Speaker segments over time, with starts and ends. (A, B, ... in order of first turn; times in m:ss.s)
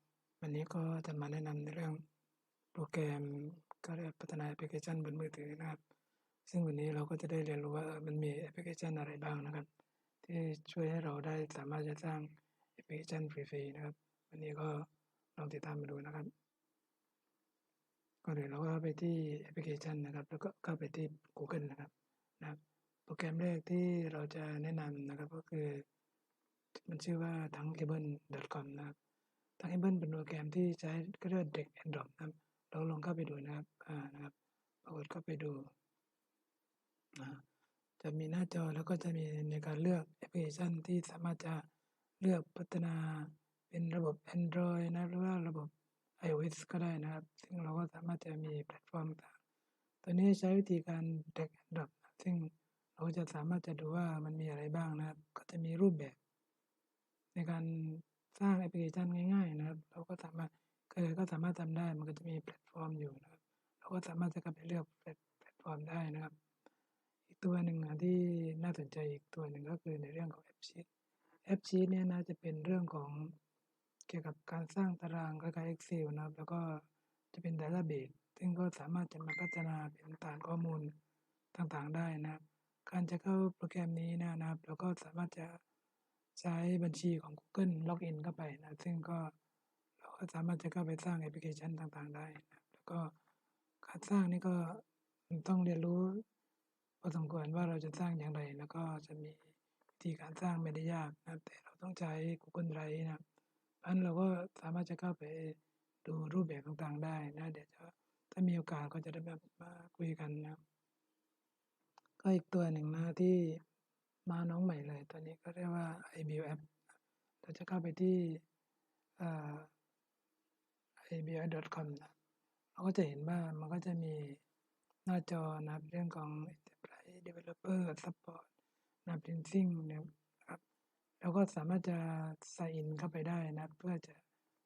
0:00.4-0:02.0 A
0:02.7-0:05.8 A
0:06.5-0:09.7 A
0:10.2-0:16.3 A
0:18.2-0:25.8 A
0:26.8-0:29.0 A
0:29.6-0:35.7 A
0:37.2-0:37.4 A
0:38.0-0:41.6 A
0:42.2-0:49.4 A
0:50.0-0:56.2 A
0:57.3-1:06.3 A
1:07.3-1:10.9 A
1:11.4-1:13.4 A
1:14.1-1:20.9 A
1:21.5-1:25.6 A
1:26.4-1:29.3 A
1:30.0-1:33.1 A
1:33.8-1:36.2 A
1:37.0-1:43.2 A
1:43.8-1:50.6 A
1:52.2-1:53.6 A
1:54.2-1:56.8 A
1:57.4-1:58.4 A
1:59.2-1:59.7 A
2:01.0-2:02.1 A
2:02.7-2:04.4 A
2:05.0-2:08.5 A
2:09.0-2:10.6 A
2:11.2-2:14.2 A